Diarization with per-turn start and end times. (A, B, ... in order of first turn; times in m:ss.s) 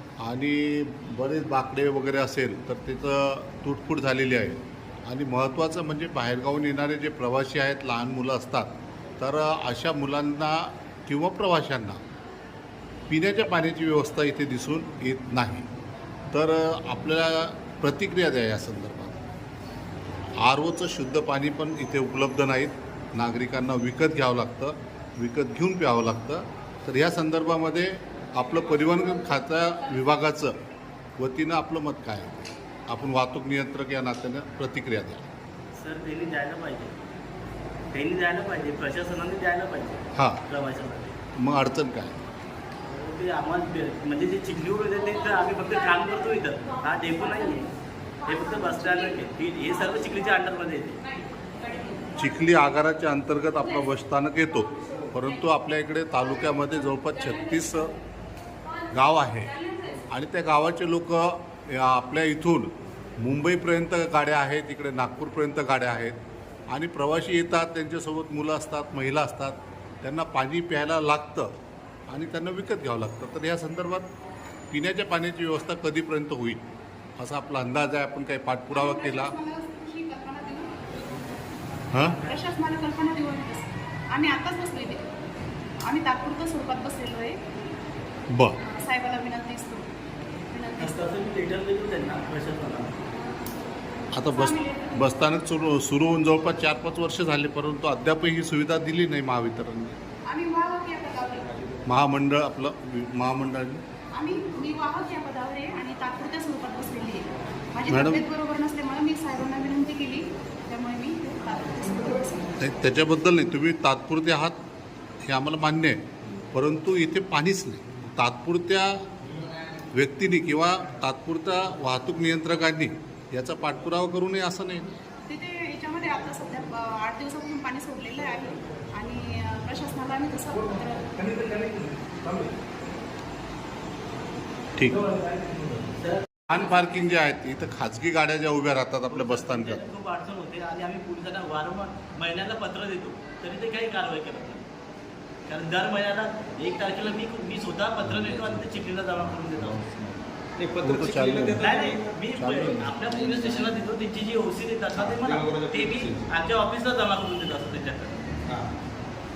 0:00.2-0:12.0 A
0:13.1-0:15.6 A
0:16.3-0:19.2 A
0:20.4-0:30.5 A
0:31.2-0:35.3 A
0:35.7-0:37.0 B
0:37.9-0:41.2 B
0:40.1-0:40.4 A
0:41.4-0:42.2 A
0:42.8-0:47.7 B
0:48.2-0:51.0 B
0:52.2-0:57.9 A
0:58.9-0:59.6 A
1:00.1-1:06.2 A
1:06.7-1:11.5 A
1:12.1-1:14.1 A
1:14.7-1:16.6 A
1:17.2-1:19.3 A
1:18.7-1:20.8 C
1:22.1-1:25.0 C
1:25.8-1:27.4 C
1:28.3-1:28.6 A
1:28.6-1:29.8 C
1:30.5-1:31.1 C
1:30.8-1:33.0 B
1:34.1-1:40.0 A
1:34.3-1:35.1 C
1:40.3-1:41.5 C
1:41.8-1:43.8 A
1:44.1-1:52.6 C
1:47.9-1:48.2 A
1:52.6-1:54.6 A
1:55.2-1:56.0 A
1:56.5-1:59.0 A
1:59.9-2:04.9 A
2:05.3-2:11.2 C
2:10.6-2:12.5 D
2:14.8-2:15.1 A
2:14.9-2:15.9 D
2:16.0-2:16.4 B
2:16.5-2:19.8 A
2:19.1-2:24.6 B
2:25.5-2:29.8 B
2:28.1-2:28.7 A
2:29.4-2:30.2 A
2:30.6-2:32.2 D
2:30.8-2:31.6 A
2:31.6-2:38.4 B
2:32.3-2:33.1 A
2:33.3-2:33.6 D
2:35.1-2:36.3 D